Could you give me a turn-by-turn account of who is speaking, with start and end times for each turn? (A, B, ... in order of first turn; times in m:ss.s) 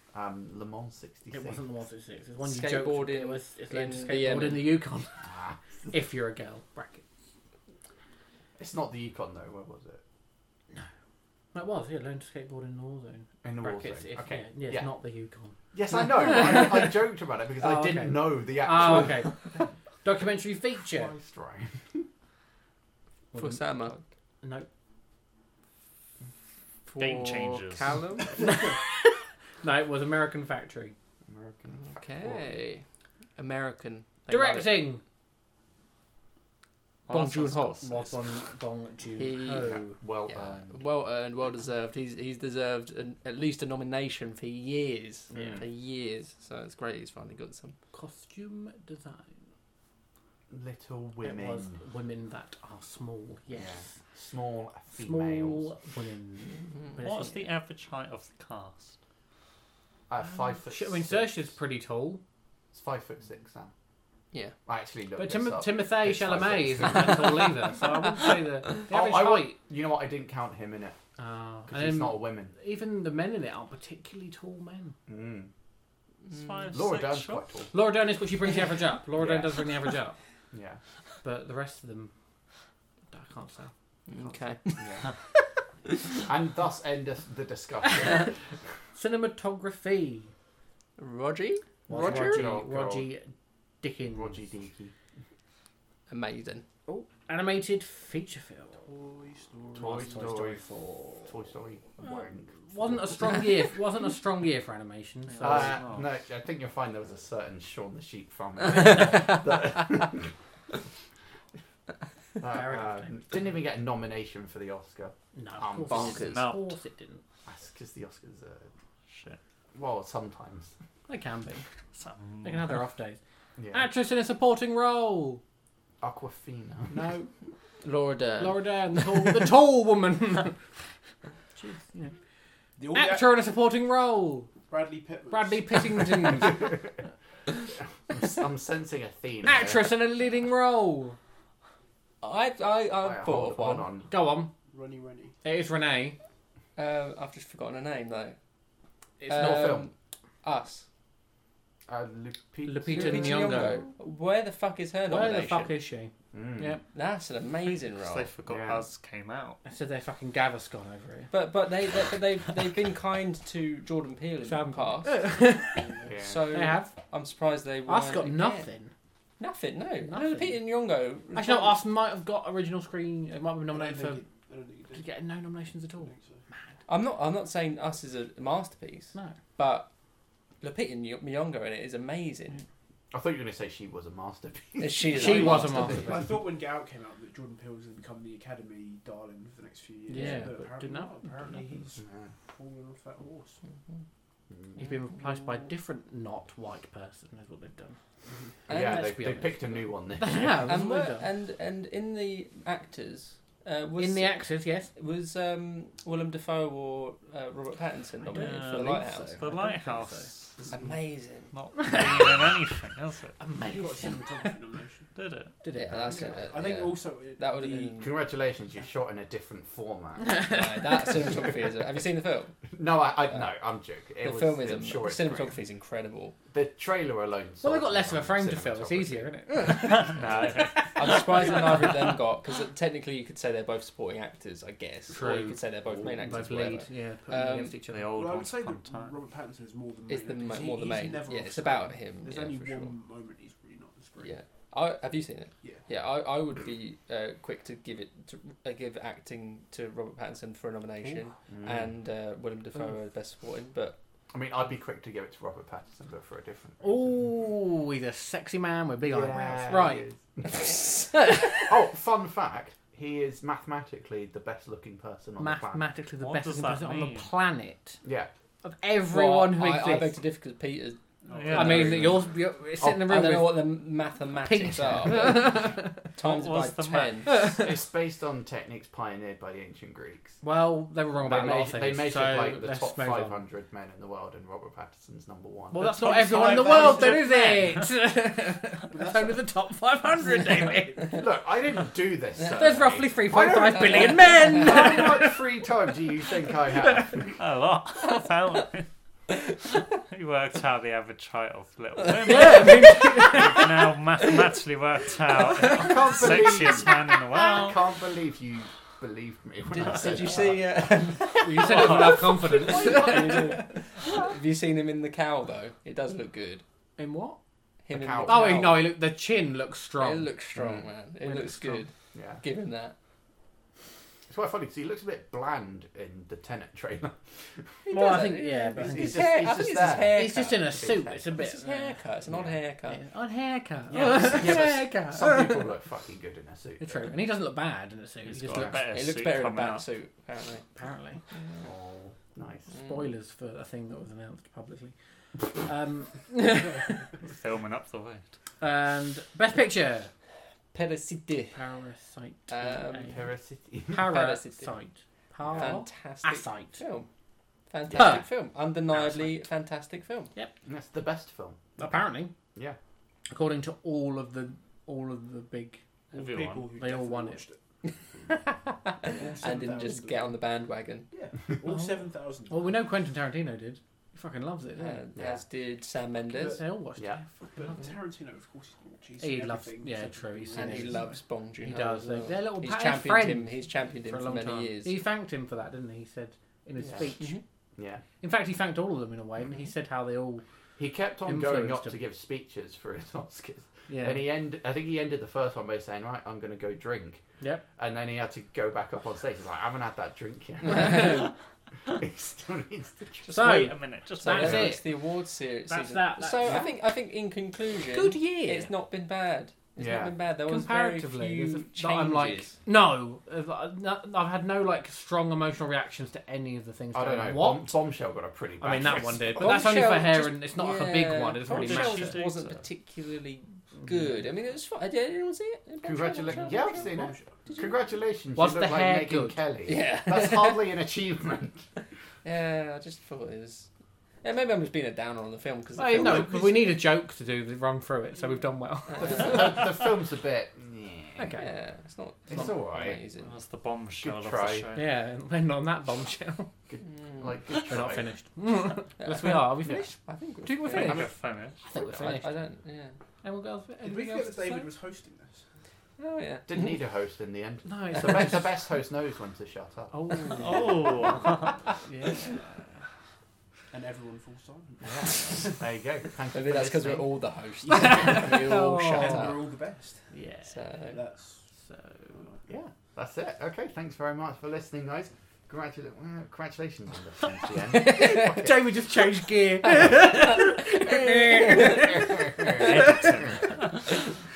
0:00.1-0:01.6 A
0:01.3-0:05.2 B
0:02.4-0:04.8 C
0:05.2-0:05.9 A
0:05.9-0:07.0 B
0:08.6-0:10.0 A
0:11.5-0:17.0 B
0:13.4-0:14.9 A
0:15.7-0:19.5 A
0:17.6-0:19.5 B
0:20.0-0:21.1 B
0:20.9-0:22.1 A
0:23.3-0:23.6 B
0:23.3-0:24.0 C
0:24.4-0:24.7 B
0:26.9-0:28.4 C
0:27.0-0:28.0 D
0:28.4-0:31.0 B
0:31.3-0:32.6 A
0:31.8-0:32.8 C
0:33.4-0:34.9 C
0:34.3-0:35.0 B
0:37.1-0:38.2 D
0:37.1-0:37.8 C
0:37.1-0:40.0 B
0:39.2-0:47.8 C
0:39.6-0:40.8 A
0:45.3-0:45.6 B
0:45.3-0:45.6 A
0:47.9-0:49.3 B
0:50.5-0:51.8 A
0:51.2-0:53.9 B
0:53.5-0:55.7 A
0:54.9-0:57.5 B
0:57.0-0:59.0 D
1:00.1-1:01.5 A
1:00.3-1:02.2 B
1:02.7-1:03.7 A
1:04.6-1:07.7 A
1:05.2-1:09.6 B
1:08.9-1:11.0 A
1:11.2-1:15.0 B
1:11.7-1:12.5 A
1:15.1-1:15.5 A
1:16.3-1:16.6 C
1:16.3-1:17.5 D
1:16.7-1:17.7 A
1:17.7-1:20.2 B
1:19.2-1:19.5 A
1:20.5-1:20.8 A
1:21.2-1:22.1 B
1:23.1-1:24.4 B
1:24.1-1:25.1 C
1:24.8-1:25.1 A
1:25.9-1:26.2 C
1:26.2-1:28.3 A
1:27.8-1:28.2 B
1:28.9-1:30.3 B
1:31.0-1:32.5 C
1:31.9-1:33.1 A
1:31.9-1:34.4 B
1:34.1-1:34.9 A
1:36.1-1:36.6 C
1:36.9-1:38.8 B
1:38.8-1:40.4 E
1:39.7-1:40.6 A
1:39.7-1:41.4 B
1:41.3-1:43.3 A
1:42.5-1:45.8 B
1:45.3-1:46.1 D
1:45.4-1:50.3 A
1:48.8-1:49.3 C
1:52.4-1:56.4 A
1:52.4-1:53.2 B
1:55.3-1:57.2 B
1:55.9-1:56.3 C
1:56.2-1:56.8 D
1:57.4-1:58.7 A
1:59.1-1:59.4 D
1:59.7-2:00.7 A
2:01.1-2:01.6 B
2:01.9-2:02.8 D
2:02.4-2:03.2 B
2:03.6-2:03.9 A
2:03.7-2:05.4 B
2:06.0-2:07.1 A
2:06.9-2:07.3 B
2:07.8-2:08.6 C
2:08.4-2:10.7 B
2:11.6-2:12.1 B
2:12.8-2:13.4 E
2:12.9-2:14.5 B
2:14.7-2:16.1 E
2:15.3-2:16.8 B
2:16.2-2:16.9 A
2:18.1-2:19.9 A
2:19.4-2:21.2 B
2:22.2-2:23.9 C
2:23.0-2:24.1 A
2:24.1-2:24.5 B
2:24.7-2:25.4 E
2:25.4-2:26.2 B
2:26.8-2:28.4 C
2:29.2-2:29.9 B
2:29.3-2:29.9 C
2:29.3-2:29.9 A
2:30.4-2:30.8 C
2:31.9-2:33.8 A
2:32.6-2:33.8 B
2:32.9-2:35.8 C
2:35.1-2:36.8 B
2:36.3-2:36.8 A
2:36.9-2:38.3 C
2:38.0-2:39.6 D
2:38.5-2:38.8 A
2:39.6-2:41.3 B
2:41.3-2:45.2 C
2:44.4-2:46.9 B
2:45.7-2:46.1 E
2:46.0-2:46.5 A
2:46.2-2:48.6 C
2:47.9-2:48.9 B
2:49.4-2:51.8 C
2:50.0-2:50.6 B
2:51.3-2:54.2 B
2:53.7-2:55.1 E
2:54.9-2:56.7 B
2:56.0-2:56.4 E
2:56.9-2:59.9 C
3:00.6-3:02.6 C
3:03.1-3:06.4 A
3:04.8-3:06.1 C
3:05.1-3:06.2 B
3:05.4-3:13.6 E
3:10.1-3:11.7 B
3:10.2-3:10.5 C
3:12.0-3:12.3 A
3:14.5-3:14.8 A
3:14.8-3:18.0 B
3:18.2-3:18.5 E
3:18.7-3:20.8 A
3:18.7-3:19.6 C
3:18.7-3:21.3 B
3:20.6-3:24.4 C
3:24.0-3:24.9 B
3:24.9-3:29.4 C
3:28.2-3:30.3 B
3:28.3-3:30.7 D
3:30.7-3:31.5 C
3:31.5-3:33.4 D
3:31.7-3:32.6 B
3:33.4-3:34.6 B
3:33.6-3:35.1 E
3:35.1-3:35.6 D
3:35.6-3:36.4 B
3:35.7-3:38.1 C
3:36.4-3:38.1 E
3:38.0-3:40.5 A
3:40.2-3:41.0 B
3:40.4-3:42.7 C
3:42.7-3:45.6 A
3:44.2-3:46.4 C
3:46.5-3:49.3 A
3:47.6-3:51.8 B
3:49.9-3:51.2 D
3:50.2-3:50.5 A
3:50.8-3:57.8 C
3:55.1-3:58.2 B
3:57.8-3:59.2 D
3:58.0-4:04.3 E
4:00.1-4:03.0 C
4:04.2-4:14.0 C
4:11.5-4:11.9 A
4:14.3-4:17.2 A
4:16.8-4:20.1 B
4:19.0-4:20.7 A
4:20.9-4:21.7 B
4:21.6-4:25.8 A
4:25.4-4:28.0 B
4:26.2-4:27.3 D
4:28.0-4:28.3 A
4:28.6-4:30.2 B
4:29.1-4:32.2 C
4:31.2-4:32.2 E
4:31.3-4:32.1 D
4:31.5-4:33.8 B
4:32.8-4:37.4 C
4:34.4-4:36.1 B
4:36.2-4:37.4 D
4:37.2-4:37.8 B
4:37.4-4:40.4 A
4:40.4-4:43.4 B
4:41.2-4:47.1 A
4:45.7-4:51.2 B
4:45.8-4:47.5 E
4:47.1-4:47.8 D
4:48.9-4:49.5 E
4:50.2-4:51.2 E
4:51.1-4:57.3 A
4:52.5-4:55.6 B
4:53.9-4:54.6 C
4:56.5-4:57.2 B
4:57.3-4:58.9 D
4:59.5-5:07.9 D
5:02.2-5:03.5 C
5:02.2-5:03.7 B
5:05.6-5:05.8 B
5:05.6-5:10.7 A
5:09.8-5:16.6 C
5:11.3-5:13.7 B
5:11.7-5:12.2 D
5:12.8-5:13.4 E
5:17.0-5:17.4 B
5:17.8-5:18.9 C
5:17.9-5:18.8 A
5:18.2-5:20.3 B
5:20.0-5:22.9 C
5:20.6-5:20.8 A
5:21.2-5:21.8 B
5:22.1-5:22.4 A
5:24.3-5:27.8 A
5:27.9-5:29.5 B
5:27.9-5:30.6 C
5:28.7-5:31.4 A
5:30.0-5:32.0 B
5:31.3-5:33.0 C
5:32.3-5:32.6 A
5:32.9-5:35.7 B
5:33.9-5:37.1 A
5:34.3-5:34.7 C
5:36.8-5:38.9 B
5:38.2-5:39.9 D
5:38.6-5:40.6 C
5:40.7-5:41.2 B
5:41.3-5:41.7 C
5:41.6-5:42.7 A
5:42.7-5:45.0 B
5:45.5-5:47.1 B
5:47.2-5:48.2 D
5:48.6-5:50.1 B
5:50.7-5:51.6 C
5:51.5-5:53.2 B
5:52.5-5:53.2 C
5:53.1-5:54.2 A
5:53.9-5:56.8 B
5:54.0-5:54.8 C
5:55.4-5:55.8 A
5:55.5-5:57.1 C
5:57.7-6:00.3 C
5:57.9-5:58.2 B
6:00.6-6:01.8 A
6:01.8-6:02.3 B
6:03.3-6:05.8 B
6:06.1-6:06.7 D
6:06.1-6:07.6 E
6:06.8-6:07.4 B
6:08.1-6:08.5 E
6:09.0-6:10.4 E
6:09.0-6:11.1 C
6:11.1-6:12.8 E
6:11.7-6:11.9 B
6:12.5-6:15.0 B
6:14.7-6:16.6 C
6:15.2-6:15.4 A
6:16.3-6:16.6 E
6:16.3-6:17.9 B
6:17.0-6:17.2 A
6:17.5-6:21.2 E
6:19.2-6:27.4 B
6:20.5-6:25.0 C
6:26.8-6:27.1 A
6:26.9-6:27.4 C
6:27.8-6:28.0 A
6:28.2-6:30.4 B
6:30.8-6:37.2 A
6:31.2-6:32.0 B
6:33.9-6:34.3 B
6:37.8-6:41.3 A
6:40.6-6:41.3 C
6:41.8-6:43.6 A
6:43.3-6:45.0 B
6:43.3-6:44.8 D
6:44.2-6:52.6 C
6:45.7-6:46.8 B
6:47.9-6:48.7 B
6:49.8-6:50.1 A
6:50.4-6:57.8 B
6:56.9-6:59.8 A
6:58.6-7:02.2 B
6:59.4-7:07.7 C
7:01.4-7:02.6 D
7:03.8-7:04.1 B
7:05.8-7:11.7 A
7:06.2-7:07.4 E
7:08.3-7:09.4 B
7:09.6-7:10.7 C
7:12.2-7:13.7 C
7:14.2-7:16.6 C
7:15.8-7:19.8 B
7:16.0-7:16.8 E
7:16.0-7:16.3 A
7:18.9-7:19.6 C
7:19.0-7:21.4 A
7:21.2-7:21.5 B
7:21.3-7:23.3 C
7:22.3-7:23.0 A
7:23.2-7:25.0 D
7:24.0-7:24.7 A
7:24.7-7:26.5 B
7:26.7-7:28.1 A
7:26.8-7:27.4 C
7:27.6-7:32.4 B
7:29.0-7:31.1 C
7:30.7-7:31.6 D
7:30.8-7:31.1 A
7:31.7-7:32.2 A
7:32.0-7:32.9 C
7:33.2-7:34.7 B
7:33.8-7:35.4 E
7:36.0-7:36.6 C
7:36.5-7:40.6 A
7:37.6-7:38.5 B
7:39.9-7:40.9 B
7:40.3-7:41.6 D
7:41.8-7:42.6 B
7:43.7-7:45.6 E
7:44.8-7:47.1 A
7:46.3-7:49.4 C
7:47.7-7:48.4 E
7:47.7-7:49.4 B
7:48.9-7:50.1 E
7:50.1-7:50.6 B
7:50.5-7:51.0 C
7:50.9-7:51.4 E
7:51.5-7:52.2 B
7:52.1-7:52.5 E
7:52.5-7:58.8 A
7:57.7-8:03.6 B
7:59.9-8:01.7 C
8:01.8-8:03.5 A
8:02.5-8:03.9 D